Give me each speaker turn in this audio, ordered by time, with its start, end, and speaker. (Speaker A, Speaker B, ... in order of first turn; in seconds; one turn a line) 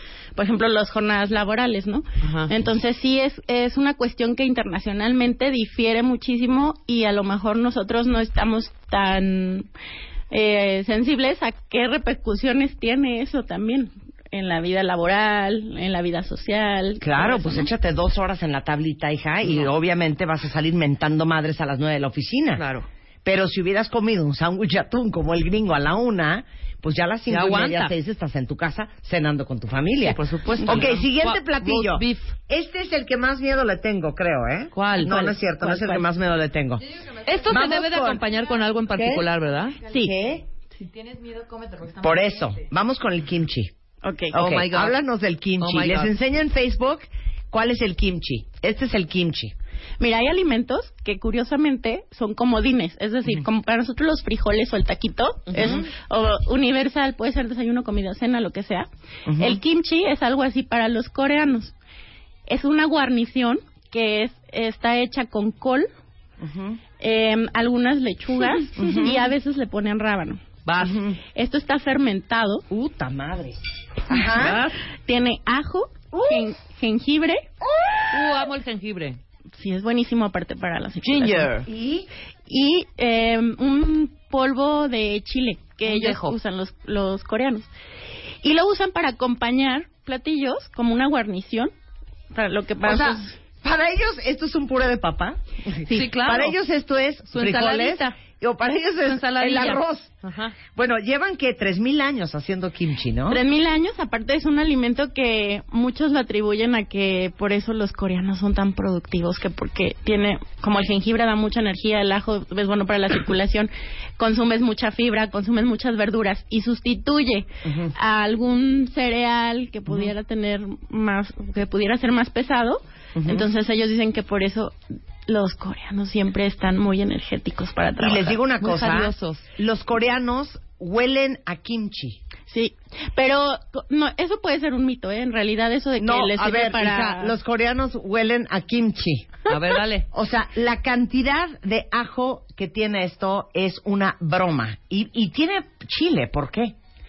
Speaker A: 0.3-9.7
Speaker B: 2.2-2.5
Speaker A: 10.3-17.7
Speaker C: 17.0-22.6
Speaker B: 19.4-19.7
Speaker B: 22.6-22.9
Speaker C: 23.2-36.8
Speaker B: 27.3-27.9
Speaker B: 30.0-32.3
Speaker B: 34.7-35.3
Speaker A: 35.0-36.0
Speaker B: 37.2-39.8
Speaker C: 37.5-38.2
Speaker C: 38.9-39.3
Speaker C: 39.9-40.5
Speaker C: 41.8-43.7
Speaker A: 44.0-44.4
Speaker C: 44.3-49.5
Speaker B: 44.3-45.0
Speaker B: 45.6-46.1
Speaker A: 50.0-61.7
Speaker B: 55.5-55.9
Speaker C: 59.2-59.6
Speaker A: 62.5-65.9
Speaker C: 66.4-66.8
Speaker A: 67.0-70.4
Speaker C: 68.8-69.3
Speaker B: 70.6-71.0
Speaker C: 70.8-71.2
Speaker A: 71.3-72.6
Speaker C: 72.7-74.6
Speaker B: 74.1-74.8
Speaker A: 75.0-77.5
Speaker C: 76.1-76.5
Speaker C: 77.6-78.4
Speaker B: 78.1-79.2
Speaker A: 79.5-81.5
Speaker B: 81.0-81.7
Speaker C: 81.7-82.1
Speaker A: 82.5-87.7
Speaker B: 85.8-86.3
Speaker A: 88.4-91.7
Speaker A: 92.3-93.4
Speaker C: 92.8-100.1
Speaker B: 95.8-96.5
Speaker B: 97.3-98.1
Speaker B: 99.0-100.5
Speaker C: 100.7-103.4
Speaker A: 103.3-124.7
Speaker C: 117.6-117.9
Speaker C: 123.1-123.5
Speaker A: 125.2-128.4
Speaker C: 128.0-132.2
Speaker B: 128.6-129.5
Speaker A: 132.5-137.3
Speaker C: 136.0-139.4
Speaker B: 139.5-140.1
Speaker C: 140.1-146.8